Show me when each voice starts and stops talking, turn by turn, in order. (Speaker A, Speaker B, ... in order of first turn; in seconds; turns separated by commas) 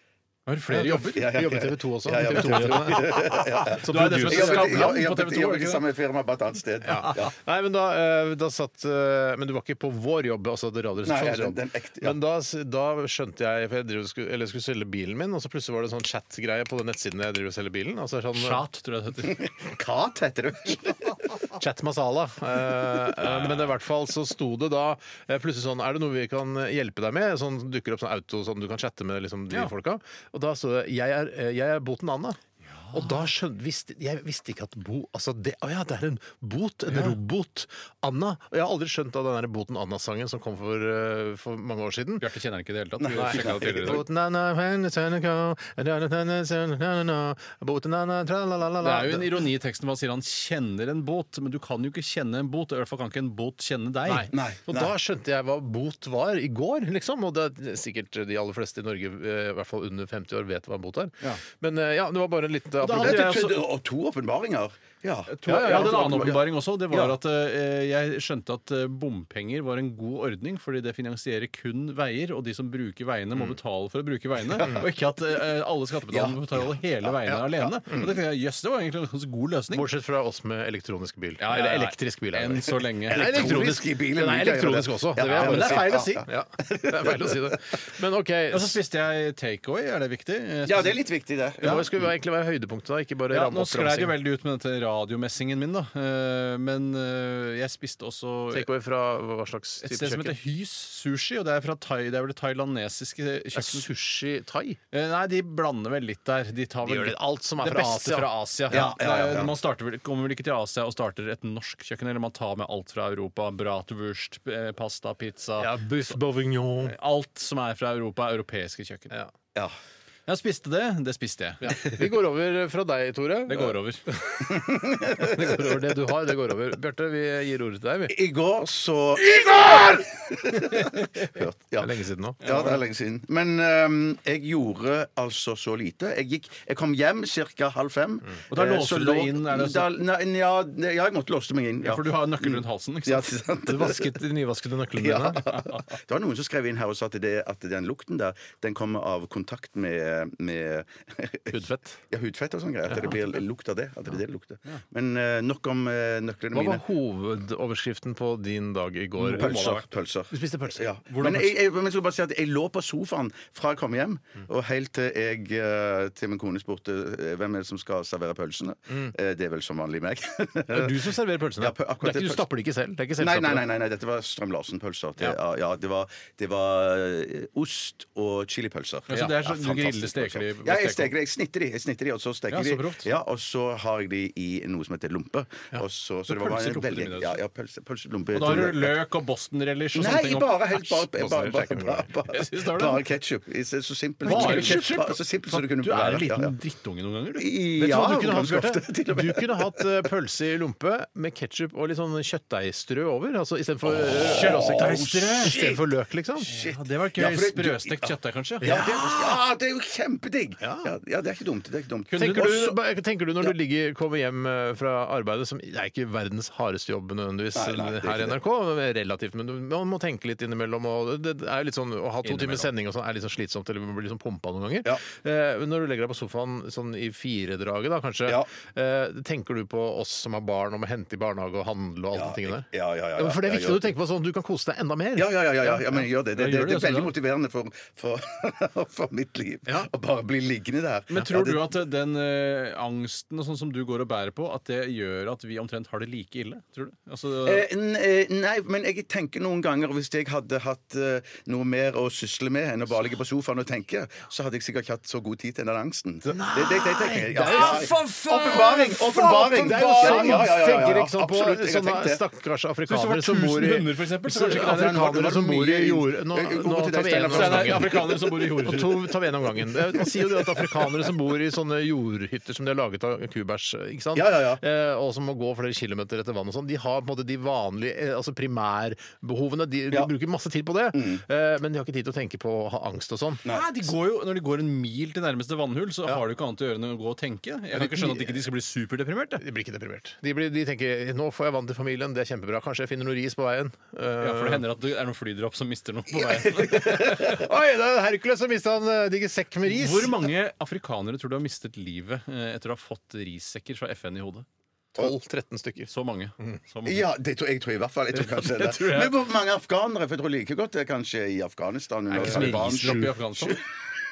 Speaker A: 0.5-1.4, Speaker B: 0.7-5.0, Speaker C: 0.9-7.3, Speaker A: 2.4-3.1, Speaker A: 3.8-5.8, Speaker B: 6.8-18.6, Speaker C: 11.0-12.2, Speaker A: 18.3-19.4, Speaker C: 19.2-21.4, Speaker B: 21.5-32.4, Speaker A: 23.2-23.7, Speaker A: 32.6-33.3, Speaker B: 32.9-42.3, Speaker A: 42.2-44.0, Speaker C: 43.0-44.0, Speaker B: 43.1-49.5, Speaker A: 48.8-54.3, Speaker B: 54.0-63.4, Speaker C: 54.3-54.9, Speaker A: 62.8-63.6, Speaker C: 62.9-67.1, Speaker A: 65.3-79.9, Speaker B: 65.5-66.3, Speaker C: 76.1-78.1, Speaker B: 79.7-88.8, Speaker A: 81.4-83.5, Speaker C: 83.1-87.6, Speaker A: 85.2-86.2, Speaker A: 88.5-91.0, Speaker C: 90.7-92.1, Speaker A: 91.6-91.8, Speaker B: 91.6-94.1, Speaker A: 93.3-98.7, Speaker B: 98.5-100.4, Speaker A: 99.8-103.9, Speaker B: 103.5-104.8, Speaker A: 104.9-115.7, Speaker B: 106.8-108.3, Speaker C: 108.7-109.5, Speaker B: 115.6-116.9, Speaker A: 116.8-119.1, Speaker A: 120.3-122.0, Speaker B: 121.6-128.1, Speaker A: 123.5-124.0, Speaker C: 124.5-125.4, Speaker C: 128.1-144.2, Speaker A: 130.7-131.1, Speaker B: 131.8-132.4, Speaker A: 132.4-132.8, Speaker A: 138.5-139.9, Speaker A: 141.8-143.3, Speaker B: 143.6-145.5, Speaker C: 144.9-156.8, Speaker A: 145.5-145.8, Speaker B: 151.5-152.0, Speaker B: 152.9-153.2, Speaker B: 156.5-159.7, Speaker A: 159.2-159.9, Speaker C: 159.3-172.4, Speaker B: 160.3-160.8, Speaker A: 161.1-161.5, Speaker B: 170.7-173.7, Speaker C: 173.2-188.9, Speaker A: 179.1-181.1, Speaker A: 182.5-183.1, Speaker A: 186.3-187.4, Speaker A: 188.3-190.8, Speaker C: 189.9-196.5, Speaker B: 190.8-192.1, Speaker A: 192.3-193.0, Speaker A: 194.2-197.5, Speaker B: 194.2-194.8, Speaker C: 197.4-200.1, Speaker B: 197.8-206.5, Speaker C: 203.8-205.8, Speaker A: 204.1-205.6, Speaker A: 206.4-208.7, Speaker C: 206.4-212.8, Speaker B: 208.6-209.4, Speaker B: 210.6-210.9, Speaker A: 212.1-212.7, Speaker B: 212.2-236.0, Speaker C: 217.5-218.4, Speaker A: 222.2-222.7, Speaker C: 232.1-233.9, Speaker C: 235.2-241.7, Speaker A: 236.3-237.1, Speaker A: 241.1-247.7, Speaker C: 247.4-262.2, Speaker B: 256.2-283.4, Speaker A: 260.0-260.4, Speaker A: 262.9-265.1, Speaker C: 264.5-268.1, Speaker A: 267.3-269.1, Speaker C: 274.1-274.6, Speaker C: 280.9-281.2, Speaker A: 283.4-289.4, Speaker B: 287.7-288.4, Speaker B: 289.4-294.7, Speaker A: 294.2-297.4, Speaker B: 296.7-300.3, Speaker C: 296.9-297.3, Speaker A: 299.6-304.4, Speaker B: 304.9-306.6, Speaker A: 305.9-307.1, Speaker C: 306.8-313.6, Speaker A: 308.1-309.2, Speaker B: 312.1-313.1, Speaker A: 312.1-313.6